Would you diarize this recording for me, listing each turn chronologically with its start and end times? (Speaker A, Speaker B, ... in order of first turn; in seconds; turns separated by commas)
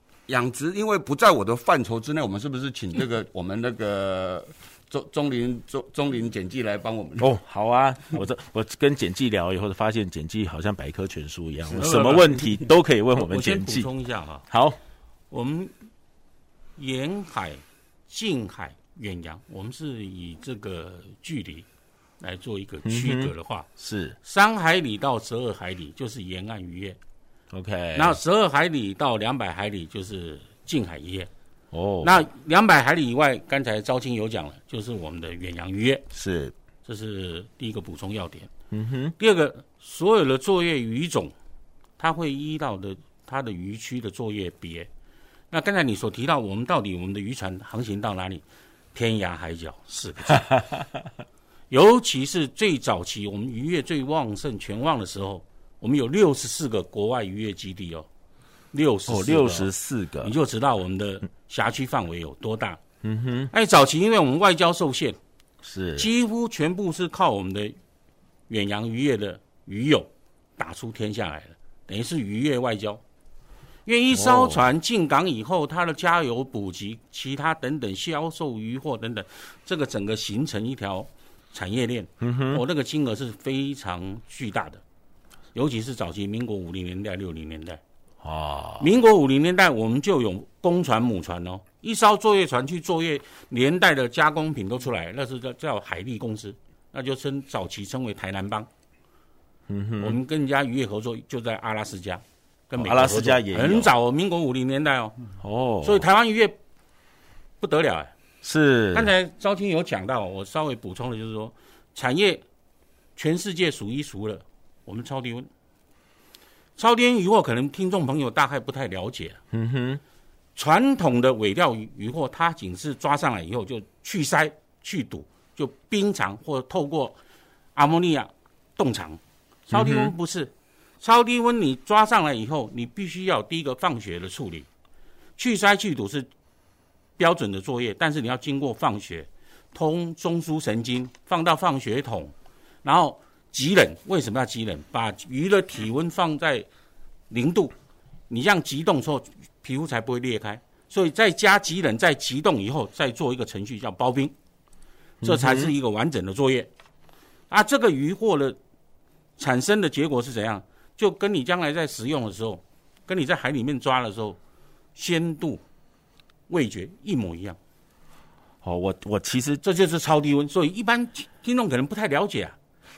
Speaker A: 0.3-7.3, Speaker B: 7.2-13.9, Speaker C: 11.8-12.3, Speaker C: 13.2-14.4, Speaker B: 14.5-14.8, Speaker C: 15.3-15.7, Speaker C: 16.8-21.6, Speaker C: 22.2-23.6, Speaker B: 22.8-24.2, Speaker C: 24.2-27.0, Speaker B: 27.5-28.2, Speaker C: 27.9-31.3, Speaker B: 31.7-32.2, Speaker C: 32.0-36.0, Speaker B: 36.1-36.5, Speaker C: 36.8-38.5, Speaker B: 38.7-39.1, Speaker C: 39.2-41.3, Speaker C: 42.0-44.9, Speaker C: 45.5-50.5, Speaker B: 50.3-51.1, Speaker C: 51.7-58.1, Speaker C: 58.7-59.7, Speaker B: 59.1-60.3, Speaker C: 60.2-62.8, Speaker B: 63.0-63.5, Speaker C: 63.5-65.2, Speaker B: 65.6-66.1, Speaker C: 66.0-67.8, Speaker C: 68.5-73.0, Speaker C: 73.8-84.8, Speaker B: 74.1-74.6, Speaker B: 82.2-82.6, Speaker C: 85.5-87.8, Speaker B: 88.2-88.9, Speaker C: 88.8-98.7, Speaker B: 99.7-100.2, Speaker C: 100.0-105.2, Speaker B: 102.8-103.9, Speaker B: 105.4-106.0, Speaker C: 105.8-106.5, Speaker C: 107.6-108.1, Speaker B: 108.4-109.1, Speaker C: 108.9-112.4, Speaker C: 113.2-115.5, Speaker C: 116.8-119.4, Speaker B: 119.5-120.0, Speaker C: 120.5-127.2, Speaker C: 127.7-134.7, Speaker B: 129.7-130.1, Speaker C: 135.4-136.3, Speaker C: 137.2-146.7, Speaker C: 147.3-147.7, Speaker C: 148.3-154.3, Speaker B: 155.2-155.7, Speaker C: 155.2-156.7, Speaker C: 157.5-158.6, Speaker C: 159.4-164.4, Speaker C: 164.9-165.6, Speaker C: 166.5-167.6, Speaker B: 168.6-169.6, Speaker C: 169.6-172.5